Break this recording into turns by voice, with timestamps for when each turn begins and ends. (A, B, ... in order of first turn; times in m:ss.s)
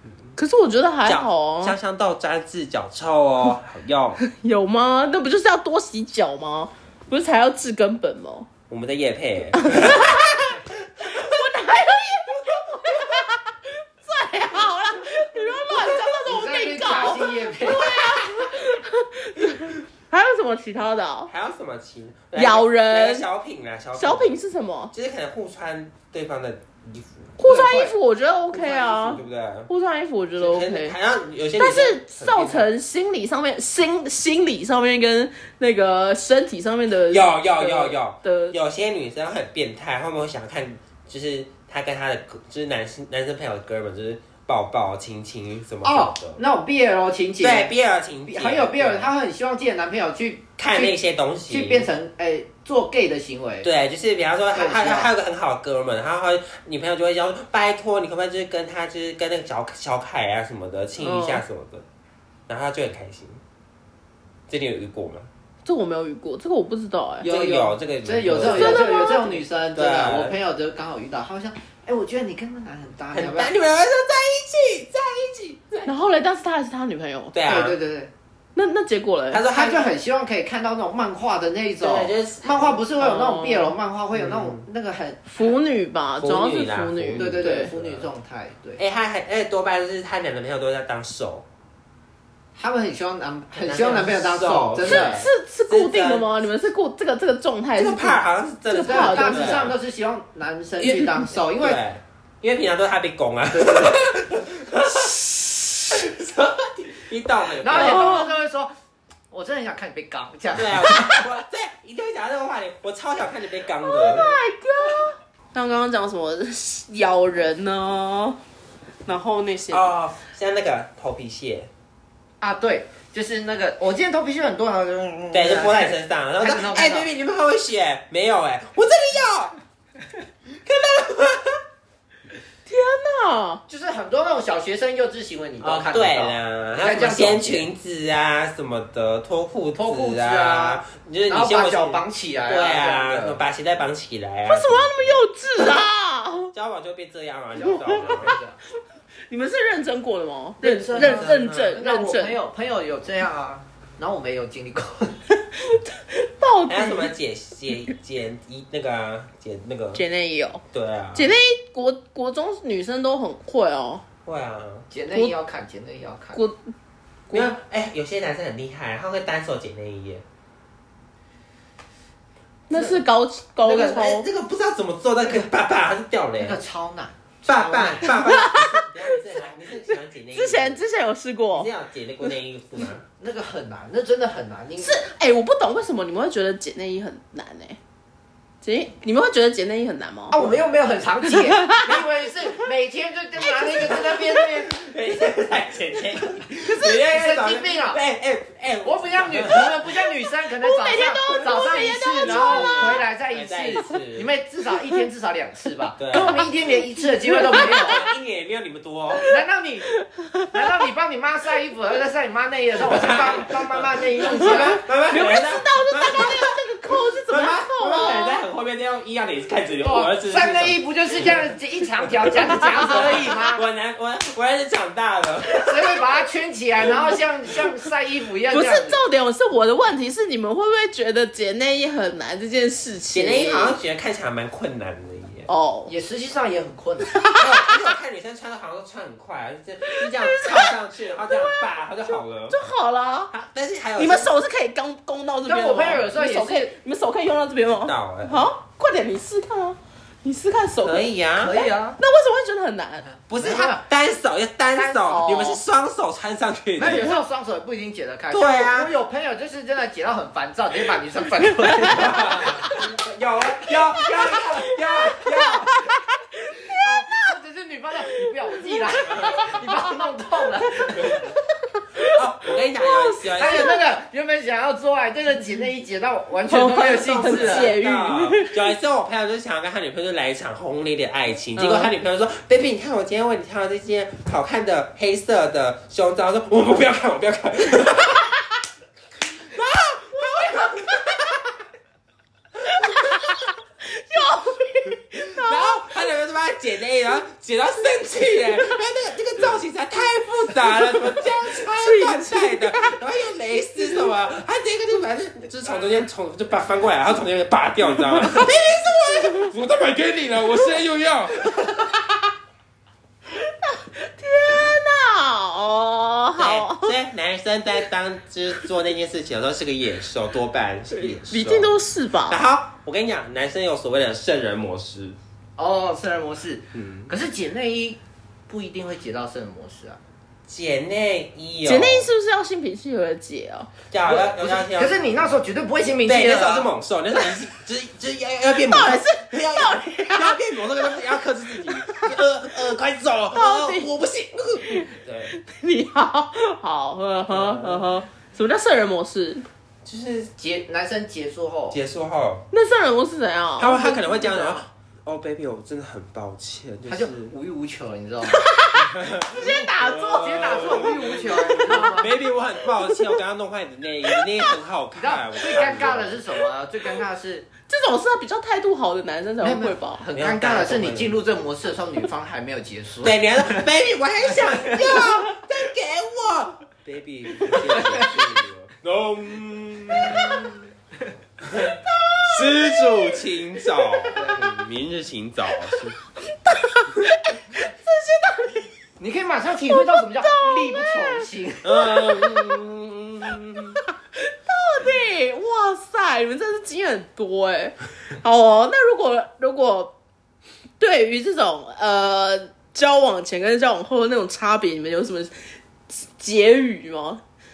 0:00.4-0:01.8 A
0:01.0-0:04.2 B
0:04.2-0:08.5 A
0:08.7-0:11.2 B
0:09.6-0:21.3 A
0:15.9-0:18.2 C
0:21.3-0:24.3 B
0:22.4-0:23.2 A
0:24.0-0:24.9 A
0:24.9-0:27.4 B
0:27.4-0:31.0 A
0:27.4-0:27.9 C
0:28.6-0:29.7 B
0:28.6-0:28.9 C
0:30.4-0:32.7 B
0:31.6-0:38.6 A
0:37.1-0:46.4 B
0:45.8-0:47.7 C
0:47.4-0:49.1 B
0:48.3-0:51.0 C
0:50.6-0:51.9 B
0:51.5-0:53.7 C
0:53.6-1:01.8 B
0:54.5-0:55.1 C
1:01.0-1:01.4 A
1:02.5-1:03.4 B
1:04.5-1:05.3 B
1:05.6-1:07.3 A
1:07.2-1:13.5 C
1:07.2-1:08.9 B
1:08.4-1:09.4 A
1:09.7-1:10.3 B
1:13.1-1:15.9 B
1:15.9-1:17.4 A
1:17.3-1:17.8 B
1:17.4-1:18.1 C
1:18.6-1:19.4 A
1:19.3-1:19.9 B
1:19.5-1:25.3 C
1:21.8-1:22.8 B
1:23.0-1:23.7 A
1:24.1-1:24.6 B
1:25.3-1:27.7 A
1:26.2-1:28.1 B
1:27.2-1:28.8 C
1:28.8-1:31.4 B
1:32.6-1:35.2 C
1:33.5-1:36.3 B
1:34.8-1:39.7 A
1:37.8-1:39.8 B
1:38.8-1:41.8 C
1:40.8-1:45.2 B
1:43.5-1:44.1 C
1:45.9-1:48.2 B
1:47.6-1:48.7 C
1:47.7-1:48.3 A
1:49.3-1:51.2 C
1:50.5-1:54.4 B
1:53.8-1:58.4 A
1:59.0-1:59.9 A
1:59.7-2:01.7 B
2:02.4-2:07.1 C
2:05.3-2:09.6 B
2:10.6-2:11.6 B
2:12.7-2:13.6 A
2:13.7-2:17.7 C
2:15.6-2:25.2 B
2:19.8-2:23.4 C
2:24.5-2:26.5 A
2:26.5-2:28.4 B
2:27.7-2:28.4 A
2:27.8-2:28.6 C
2:29.3-2:32.4 A
2:30.6-2:35.2 C
2:30.9-2:31.8 B
2:35.6-2:37.1 A
2:36.7-2:40.0 B
2:39.9-2:40.6 A
2:40.7-2:41.4 B
2:41.2-2:44.0 A
2:44.3-2:44.9 B
2:44.9-2:46.4 C
2:47.3-2:50.2 B
2:52.7-2:54.3 A
2:52.7-2:53.0 C
2:53.6-2:56.6 B
2:56.4-2:58.2 C
2:57.4-3:00.8 B
2:58.0-2:59.2 A
3:00.3-3:01.7 A
3:01.5-3:03.0 B
3:03.2-3:05.0 C
3:04.8-3:07.8 A
3:08.6-3:10.4 A
3:10.3-3:14.8 C
3:11.2-3:12.0 A
3:13.7-3:19.9 B
3:16.5-3:18.0 C
3:18.8-3:28.0 C
3:20.6-3:23.0 A
3:21.3-3:24.3 B
3:26.0-3:26.4 B
3:27.2-3:28.0 A
3:27.5-3:29.3 B
3:29.2-3:29.9 C
3:30.0-3:30.8 A
3:30.5-3:34.8 C
3:32.8-3:36.6 B
3:34.3-3:38.4 A
3:37.3-3:41.4 B
3:39.8-3:43.6 C
3:42.0-3:45.9 B
3:42.5-3:43.6 A
3:45.6-3:49.0 C
3:48.5-3:53.8 A
3:53.1-3:55.5 B
3:55.5-3:55.9 A
3:55.9-3:57.2 C
3:57.0-3:57.8 A
3:57.4-4:02.6 B
3:59.9-4:00.8 A
4:01.3-4:03.3 A
4:03.3-4:04.3 B
4:04.0-4:13.1 A
4:05.4-4:06.7 C
4:07.8-4:08.5 B
4:10.8-4:11.6 B
4:11.4-4:12.0 C
4:13.3-4:17.1 B
4:13.3-4:13.8 C
4:14.8-4:15.6 A
4:16.8-4:22.8 C
4:18.3-4:18.9 B
4:21.6-4:22.1 A
4:21.8-4:25.9 B
4:24.2-4:27.3 A
4:26.7-4:31.2 C
4:28.1-4:29.8 A
4:29.0-4:29.5 B
4:30.7-4:33.8 A
4:31.0-4:31.2 B
4:32.0-4:33.7 B
4:33.4-4:37.8 C
4:36.5-4:38.7 A
4:36.8-4:48.4 B
4:41.6-4:41.9 A
4:49.6-4:51.3 A
4:50.0-4:51.2 B
4:52.6-4:56.0 A
4:55.1-5:11.9 B
5:00.7-5:03.0 A
5:08.3-5:08.6 A
5:13.3-5:17.0 A
5:16.4-5:21.7 B
5:20.9-5:22.4 A
5:22.3-5:25.2 B
5:25.6-5:30.0 C
5:26.8-5:27.1 B
5:30.5-5:32.1 B
5:31.6-5:33.7 A
5:33.9-5:35.1 B
5:34.0-5:36.7 C
5:36.0-5:45.4 B
5:38.6-5:41.0 A
5:41.6-5:42.2 A
5:43.3-5:43.9 A
5:44.7-5:49.4 A
5:47.3-5:47.9 B
5:49.8-5:50.3 B
5:50.4-5:51.8 C
5:51.7-5:52.4 B
5:52.5-5:54.6 A
5:53.6-5:57.3 B
5:56.9-5:58.5 C
5:58.3-6:02.1 A
5:58.8-6:06.2 B
5:59.4-6:02.1 C
6:05.0-6:07.5 C
6:07.7-6:10.0 A
6:09.4-6:13.7 C
6:10.1-6:11.2 B
6:13.0-6:20.7 B
6:14.3-6:15.0 C
6:17.5-6:18.1 C
6:21.4-6:26.0 B
6:21.6-6:23.2 A
6:23.8-6:24.2 A
6:24.2-6:24.4 C
6:25.7-6:28.7 A
6:29.0-6:32.0 C
6:29.7-6:32.6 A
6:31.6-6:33.8 B
6:34.2-6:39.9 A
6:40.8-6:45.3 A
6:45.9-6:47.2 A